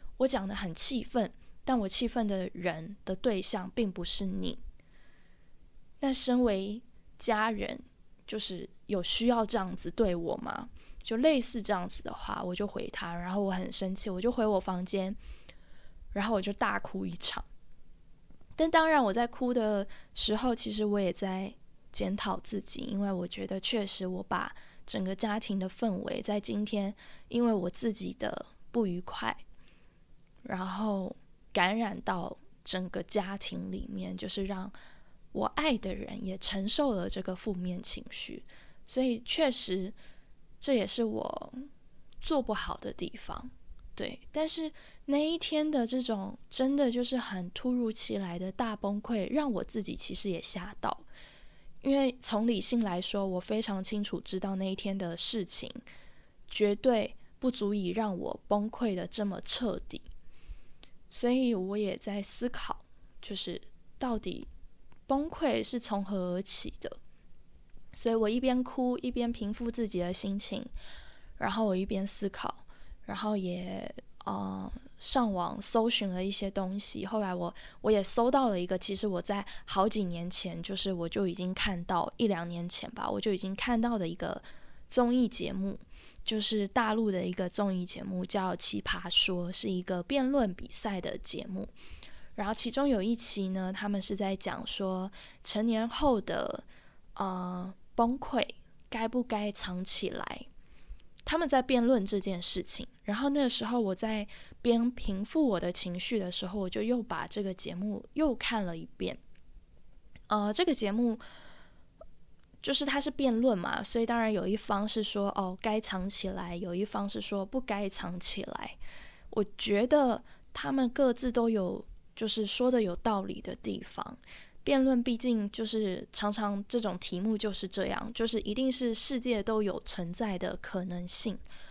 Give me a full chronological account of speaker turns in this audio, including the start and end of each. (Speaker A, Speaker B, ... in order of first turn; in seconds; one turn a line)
Speaker A: 0.2-4.6
Speaker A: 6.0-15.2
Speaker A: 16.1-17.4
Speaker A: 18.6-29.4
Speaker A: 30.4-34.7
Speaker A: 35.3-40.0
Speaker A: 40.6-41.7
Speaker A: 42.2-51.0
Speaker A: 51.8-55.8
Speaker A: 56.5-60.1
Speaker A: 61.1-64.5
Speaker A: 65.1-67.0
Speaker A: 67.9-70.7
Speaker A: 71.4-91.7
Speaker A: 92.3-96.6
Speaker A: 97.2-100.5
Speaker A: 101.2-109.2
Speaker A: 110.3-111.2
Speaker A: 112.6-118.8
Speaker A: 119.3-131.4